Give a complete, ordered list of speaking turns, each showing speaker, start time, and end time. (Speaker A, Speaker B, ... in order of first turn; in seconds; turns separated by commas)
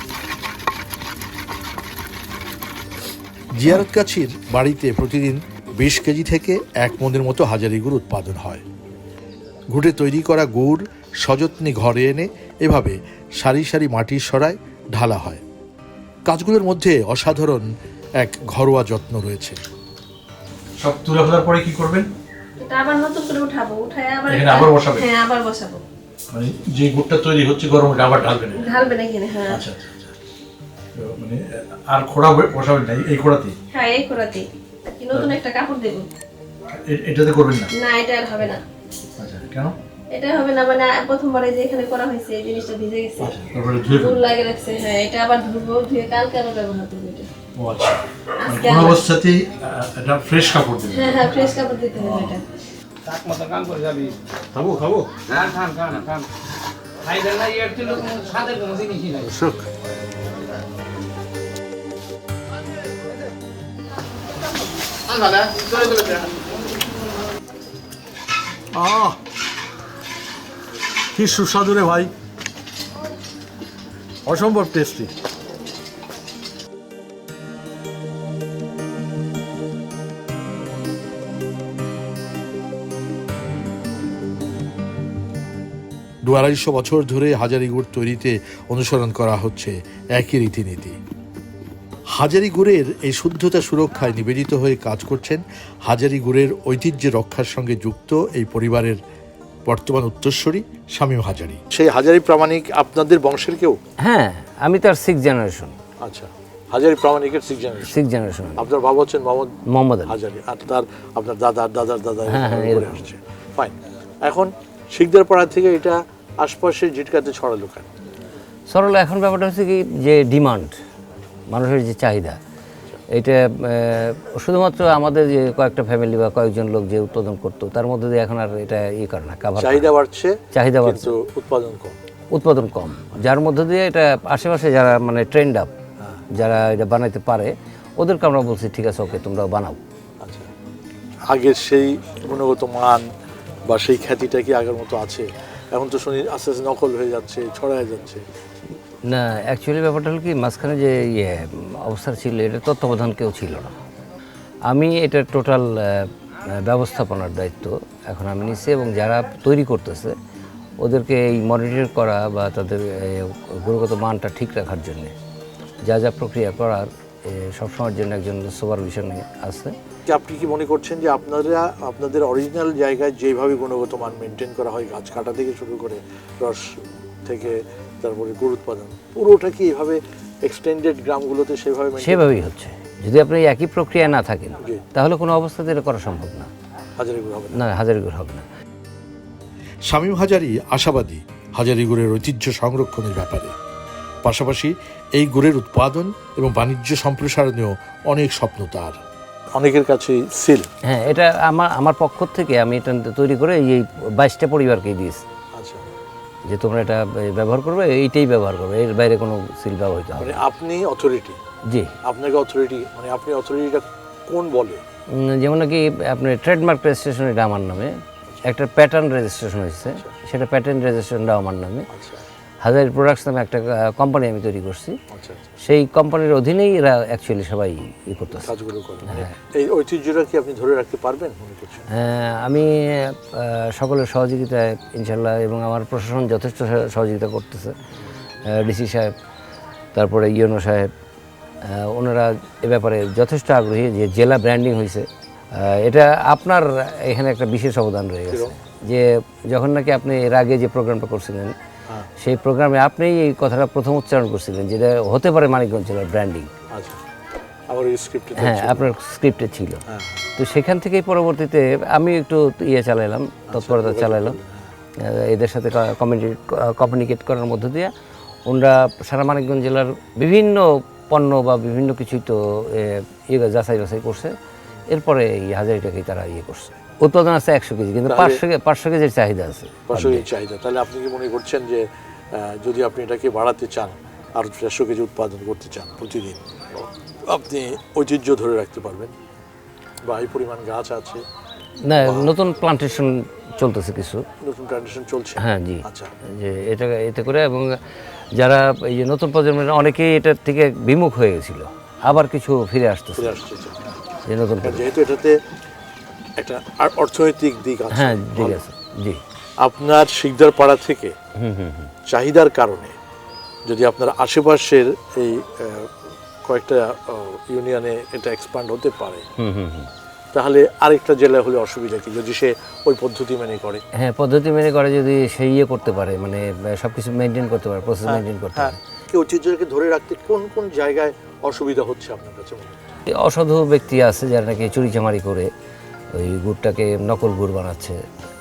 Speaker A: 3.5-8.6, Speaker A: 9.7-15.4, Speaker A: 16.3-17.6, Speaker A: 18.2-19.6, Speaker A: 20.8-22.1, Speaker B: 22.6-25.8, Speaker A: 24.3-25.1, Speaker A: 26.3-28.6, Speaker B: 28.5-29.6, Speaker A: 29.5-30.1, Speaker A: 30.9-33.5, Speaker B: 33.7-34.5, Speaker B: 35.0-36.1, Speaker A: 36.8-37.7, Speaker B: 37.7-38.6, Speaker A: 39.2-39.7, Speaker B: 40.1-47.3, Speaker A: 43.2-44.2, Speaker A: 47.6-52.3, Speaker B: 48.4-49.0, Speaker B: 50.9-52.4, Speaker C: 53.0-54.1, Speaker A: 54.5-54.9, Speaker C: 54.9-56.3, Speaker C: 57.0-59.3, Speaker A: 59.2-59.6, Speaker A: 65.1-66.2, Speaker A: 68.7-69.2, Speaker A: 71.1-72.1, Speaker A: 74.2-75.1, Speaker A: 86.2-91.0, Speaker A: 92.1-99.0, Speaker A: 99.7-103.8, Speaker D: 104.0-105.8, Speaker A: 106.0-107.9, Speaker D: 107.9-108.6, Speaker A: 108.6-109.5, Speaker D: 109.7-110.1, Speaker A: 110.1-113.7, Speaker D: 112.3-113.0, Speaker A: 114.2-117.9, Speaker D: 118.7-120.8, Speaker D: 121.5-122.4, Speaker D: 123.1-129.9, Speaker A: 129.6-131.9, Speaker D: 130.5-131.1, Speaker D: 132.3-135.7, Speaker D: 136.3-139.8, Speaker A: 140.2-140.5, Speaker A: 141.3-143.0, Speaker A: 143.7-148.2, Speaker D: 149.1-153.7, Speaker D: 154.7-160.2, Speaker D: 160.8-165.1, Speaker D: 165.8-169.7, Speaker A: 170.1-176.7, Speaker A: 177.2-182.3, Speaker D: 182.0-186.5, Speaker A: 187.0-187.6, Speaker D: 187.5-188.4, Speaker A: 189.9-193.5, Speaker A: 194.2-199.0, Speaker A: 199.6-200.7, Speaker D: 200.8-205.2, Speaker A: 205.6-205.9, Speaker D: 206.5-210.4, Speaker A: 210.2-211.4, Speaker A: 212.0-214.8, Speaker D: 215.1-221.8, Speaker A: 221.9-222.2, Speaker D: 222.6-225.0, Speaker A: 225.1-225.4, Speaker D: 225.6-228.5, Speaker A: 228.4-231.9, Speaker D: 229.1-229.3, Speaker D: 231.9-237.7, Speaker D: 238.5-239.1, Speaker D: 239.9-240.9, Speaker D: 241.6-251.5, Speaker D: 252.2-256.5, Speaker A: 256.7-257.0, Speaker A: 257.7-258.8, Speaker D: 258.4-259.8, Speaker A: 259.9-260.2, Speaker D: 260.4-264.4, Speaker A: 263.5-264.6, Speaker D: 265.0-267.9, Speaker D: 268.5-274.3, Speaker D: 274.9-280.2, Speaker A: 278.1-278.4, Speaker A: 279.9-289.1, Speaker A: 290.1-291.2, Speaker D: 291.9-294.2, Speaker A: 292.0-292.3, Speaker A: 294.4-296.1, Speaker D: 295.4-297.8, Speaker D: 298.4-303.4, Speaker A: 303.2-303.8, Speaker D: 304.3-304.8, Speaker A: 304.6-305.3, Speaker A: 306.4-308.6, Speaker D: 307.9-309.2, Speaker A: 309.6-311.1, Speaker D: 311.4-311.9, Speaker A: 312.1-312.9, Speaker A: 313.7-315.9, Speaker A: 316.4-319.2, Speaker D: 319.4-319.9, Speaker A: 320.3-323.8, Speaker D: 323.9-328.8, Speaker A: 328.1-332.8, Speaker D: 333.1-335.5, Speaker D: 336.1-338.0